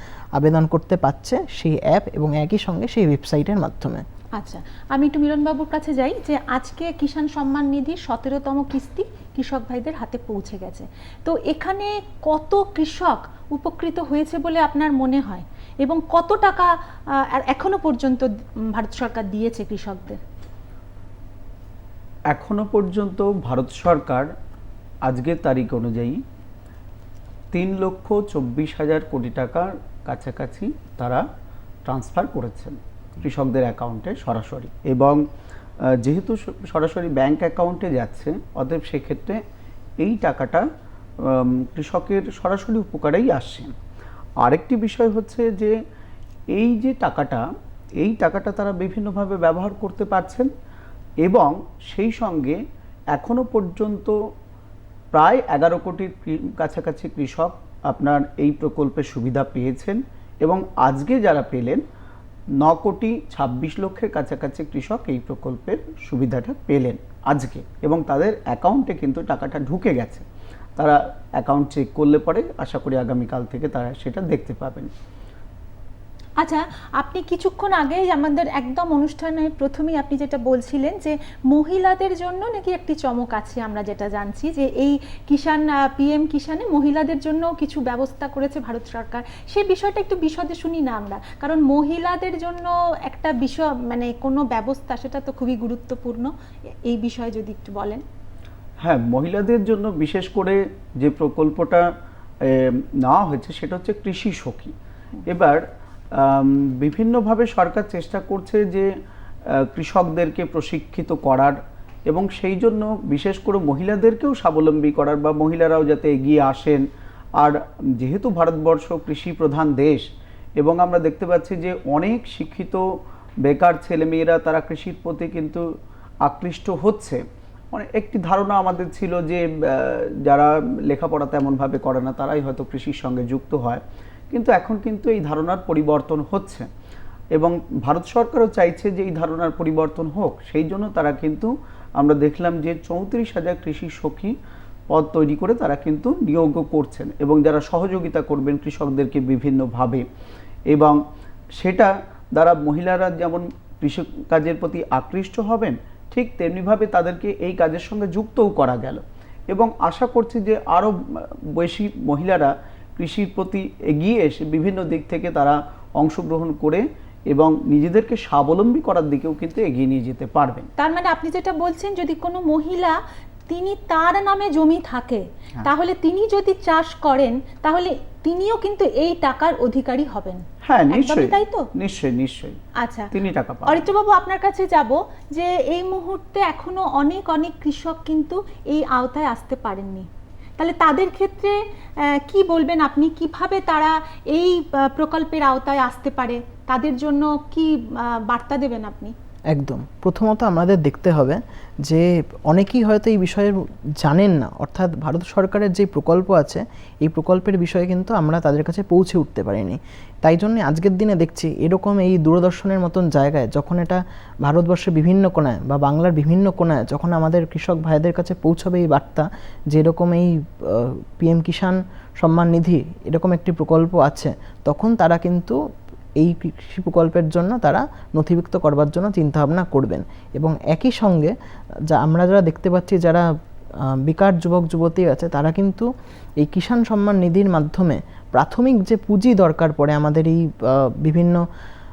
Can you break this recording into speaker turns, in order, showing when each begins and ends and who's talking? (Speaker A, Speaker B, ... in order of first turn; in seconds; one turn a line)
Speaker A: 0.4-4.0
Speaker B: 4.4-20.2
Speaker C: 22.3-24.3
Speaker C: 25.1-26.2
Speaker C: 27.5-31.2
Speaker C: 31.9-35.2
Speaker C: 35.9-39.4
Speaker C: 40.0-40.7
Speaker C: 41.2-43.7
Speaker C: 44.4-45.8
Speaker C: 46.5-47.4
Speaker C: 48.0-50.5
Speaker C: 51.2-52.6
Speaker C: 53.1-54.1
Speaker C: 55.1-61.8
Speaker C: 62.6-70.2
Speaker C: 70.8-74.9
Speaker B: 76.4-96.3
Speaker B: 96.8-98.0
Speaker C: 98.8-101.9
Speaker C: 102.4-104.7
Speaker C: 105.3-108.9
Speaker C: 109.5-116.8
Speaker C: 117.4-120.0
Speaker C: 120.6-122.8
Speaker C: 123.4-125.6
Speaker C: 126.2-127.2
Speaker C: 127.7-136.7
Speaker C: 137.3-144.3
Speaker C: 144.9-150.0
Speaker C: 150.7-151.0
Speaker C: 151.6-170.7
Speaker B: 170.8-173.0
Speaker B: 173.5-181.7
Speaker C: 180.6-182.6
Speaker B: 182.8-183.1
Speaker C: 183.1-183.9
Speaker B: 183.7-199.1
Speaker A: 199.5-225.6
Speaker A: 226.2-231.3
Speaker A: 231.9-233.3
Speaker A: 234.1-235.9
Speaker A: 236.4-241.4